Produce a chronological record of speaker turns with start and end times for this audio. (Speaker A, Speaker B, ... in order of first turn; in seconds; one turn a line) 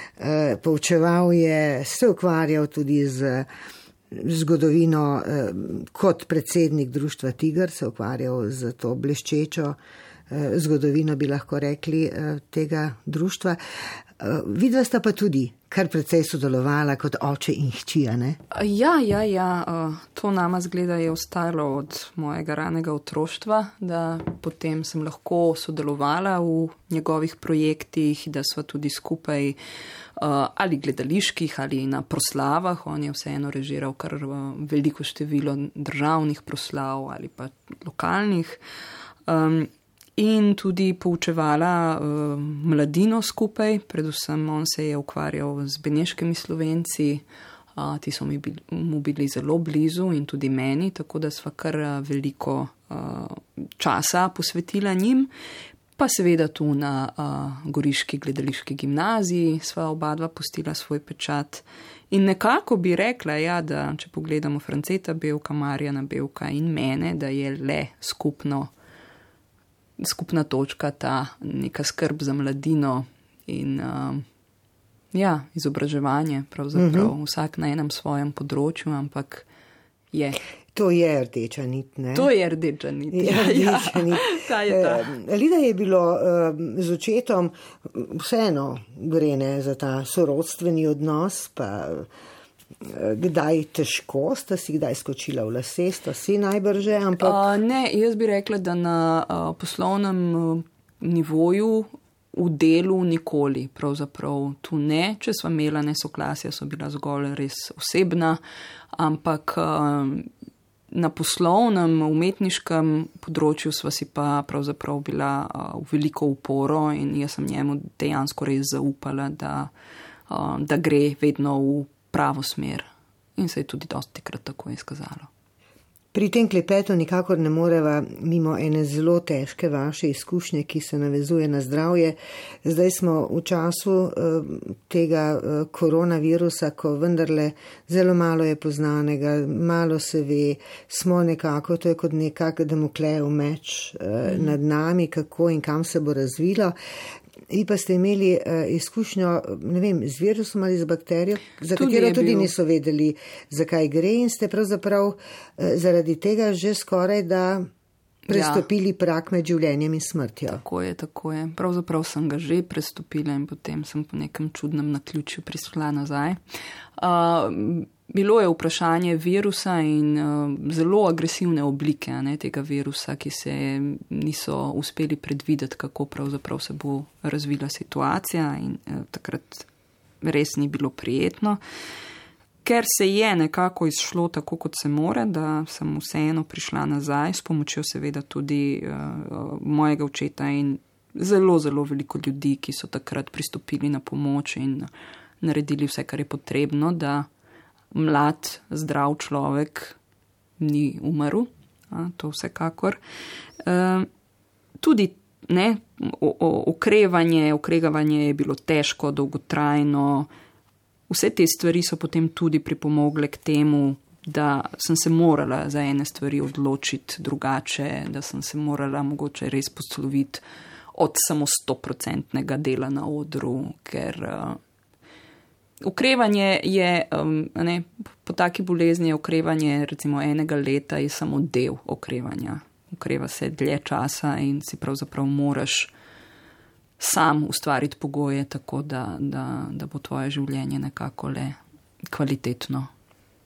Speaker A: 0.2-3.5
Speaker A: 4.1-9.8
Speaker A: 10.3-13.6
Speaker A: 14.2-18.4
Speaker B: 18.5-29.6
Speaker B: 30.2-38.6
Speaker B: 39.3-47.2
Speaker B: 47.7-55.3
Speaker B: 56.0-68.7
Speaker B: 70.0-74.2
Speaker B: 75.1-79.5
Speaker A: 76.7-77.1
Speaker B: 80.1-80.4
Speaker A: 80.7-82.3
Speaker B: 82.1-85.1
Speaker A: 83.1-92.1
Speaker A: 92.8-97.4
Speaker B: 97.2-108.4
Speaker B: 108.9-110.3
Speaker B: 110.9-119.7
Speaker B: 120.3-125.3
Speaker A: 126.1-146.8
Speaker B: 144.2-144.5
Speaker A: 147.5-157.7
Speaker B: 151.7-152.5
Speaker B: 158.3-158.7
Speaker A: 158.3-160.6
Speaker B: 160.5-166.4
Speaker B: 167.0-179.7
Speaker B: 180.2-181.6
Speaker B: 182.6-194.9
Speaker B: 195.4-197.3
Speaker B: 197.9-200.0
Speaker B: 200.6-203.0
Speaker B: 203.6-204.1
Speaker B: 204.8-210.3
Speaker B: 211.1-220.4
Speaker B: 220.9-224.6
Speaker B: 225.8-235.9
Speaker B: 237.0-241.6
Speaker B: 242.1-242.9